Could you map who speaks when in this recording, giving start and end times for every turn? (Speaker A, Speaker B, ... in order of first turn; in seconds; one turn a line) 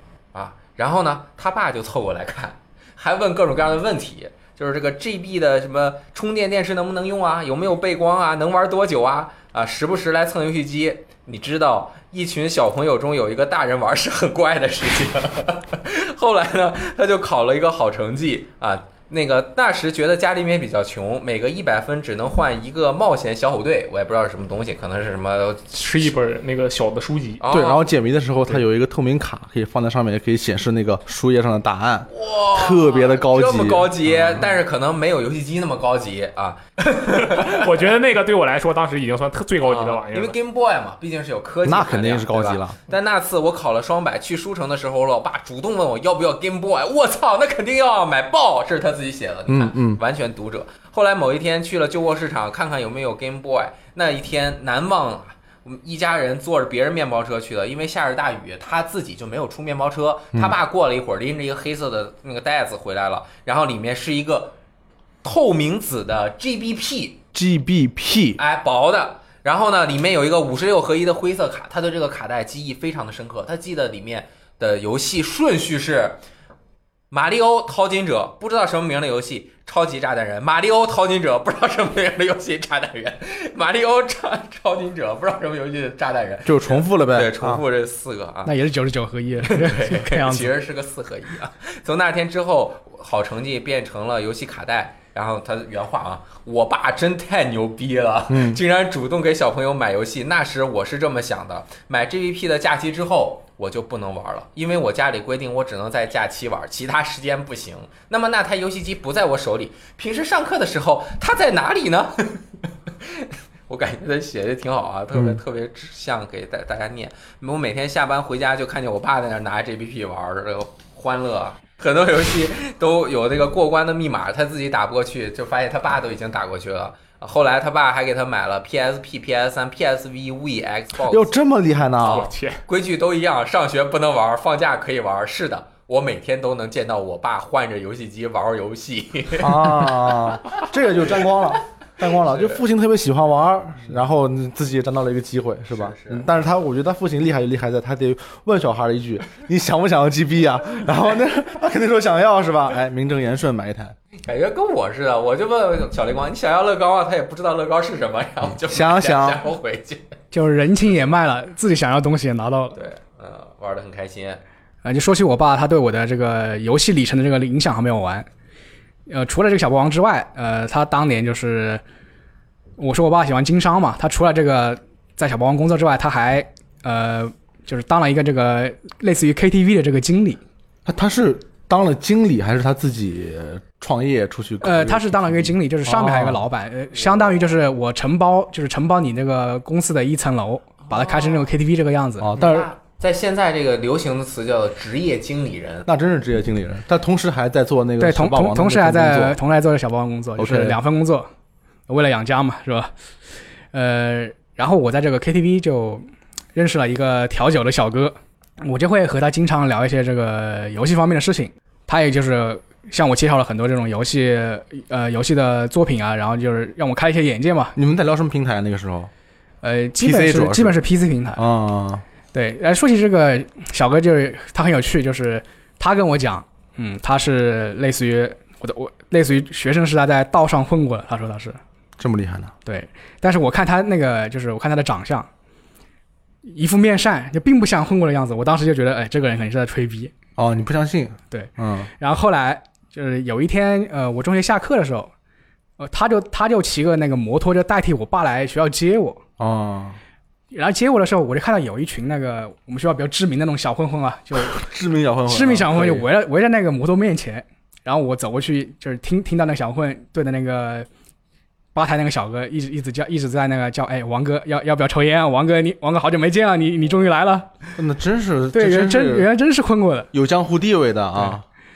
Speaker A: 0.3-25.8
Speaker B: 25.7-27.4
Speaker A: 27.4-27.9
Speaker C: 27.5-34.5
Speaker A: 32.1-37.8
Speaker B: 37.3-40.4
Speaker A: 39.6-64.5
Speaker C: 41.6-42.8
Speaker C: 49.5-50.0
Speaker A: 65.2-67.2
Speaker C: 67.3-68.4
Speaker A: 68.4-76.2
Speaker A: 77.1-88.5
Speaker C: 86.4-87.6
Speaker D: 88.5-90.5
Speaker A: 89.4-131.4
Speaker C: 98.3-98.6
Speaker C: 115.1-115.4
Speaker C: 131.1-132.3
Speaker A: 132.0-140.6
Speaker B: 132.1-132.6
Speaker C: 139.4-153.9
Speaker A: 142.1-142.6
Speaker A: 145.7-146.3
Speaker A: 154.2-160.1
Speaker C: 158.5-159.4
Speaker D: 160.3-162.8
Speaker A: 162.7-164.4
Speaker D: 164.8-168.3
Speaker D: 169.1-171.8
Speaker D: 172.8-180.4
Speaker C: 180.8-186.4
Speaker D: 184.6-192.3
Speaker A: 186.9-187.5
Speaker A: 190.9-191.5
Speaker C: 192.2-192.7
Speaker A: 192.4-195.9
Speaker C: 195.9-199.4
Speaker D: 198.0-201.3
Speaker C: 200.4-200.8
Speaker D: 201.9-202.9
Speaker D: 203.7-206.0
Speaker D: 206.6-217.8
Speaker C: 217.8-219.1
Speaker D: 219.6-221.4
Speaker C: 220.0-220.8
Speaker C: 221.4-222.0
Speaker D: 222.3-231.6
Speaker C: 232.0-232.5
Speaker D: 232.7-235.3
Speaker D: 236.4-240.1
Speaker C: 240.4-241.9
Speaker D: 241.3-245.1
Speaker D: 245.8-249.2
Speaker C: 249.4-250.0
Speaker D: 250.5-254.6
Speaker C: 254.4-256.1
Speaker D: 255.3-260.9
Speaker D: 261.7-267.5
Speaker C: 267.8-269.3
Speaker D: 268.5-270.1
Speaker C: 270.1-271.4